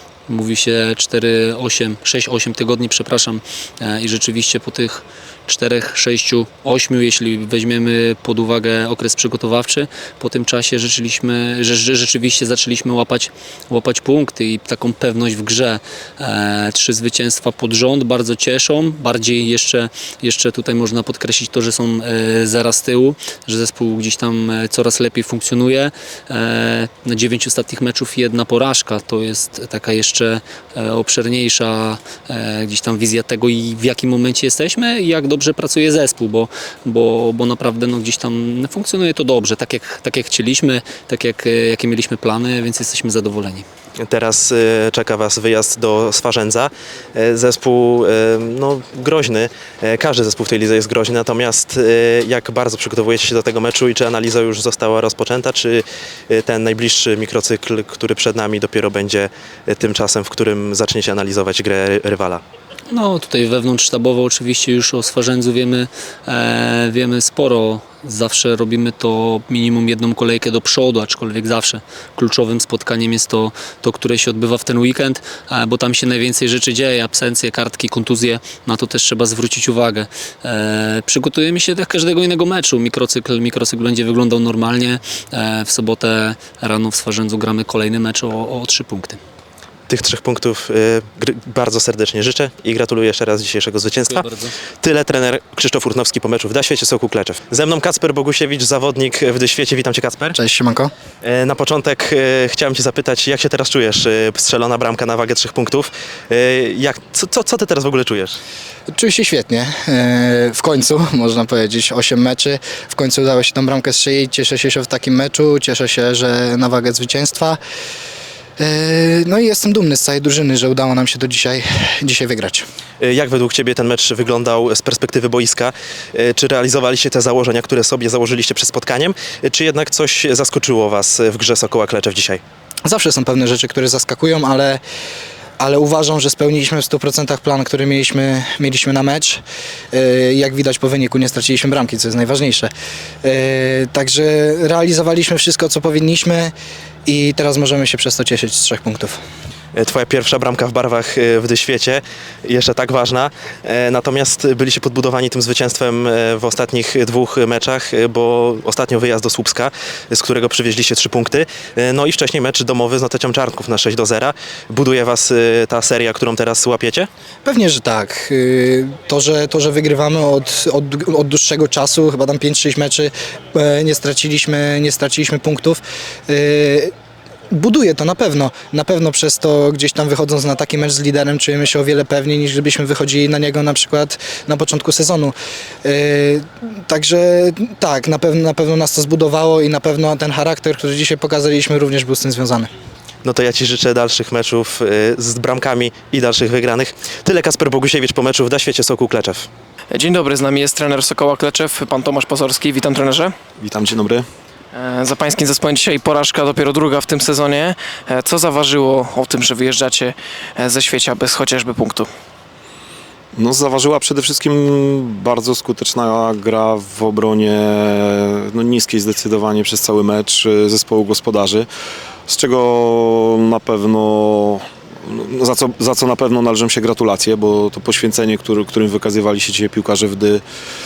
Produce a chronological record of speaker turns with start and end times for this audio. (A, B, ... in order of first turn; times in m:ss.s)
0:00.3-0:43.6 A
0:44.0-1:02.4 B
1:02.9-1:29.2 A
1:29.9-1:34.2 B
1:34.1-1:34.5 A
1:34.8-1:40.4 B
1:40.4-1:40.9 C
1:41.2-1:48.4 B
1:48.9-1:57.6 C
1:58.6-2:02.6 C
2:03.0-2:12.4 B
2:12.8-2:14.8 C
2:15.6-2:19.4 C
2:19.9-2:22.7 C
2:23.2-2:26.5 C
2:27.0-2:29.2 C
2:29.7-2:47.1 B
2:47.4-2:56.9 C
2:57.5-3:12.7 C
3:13.2-3:19.5 B
3:19.9-3:23.3 D
3:23.6-3:24.2 E
3:24.7-3:32.1 D
3:33.4-3:41.7 E
3:42.3-3:50.4 E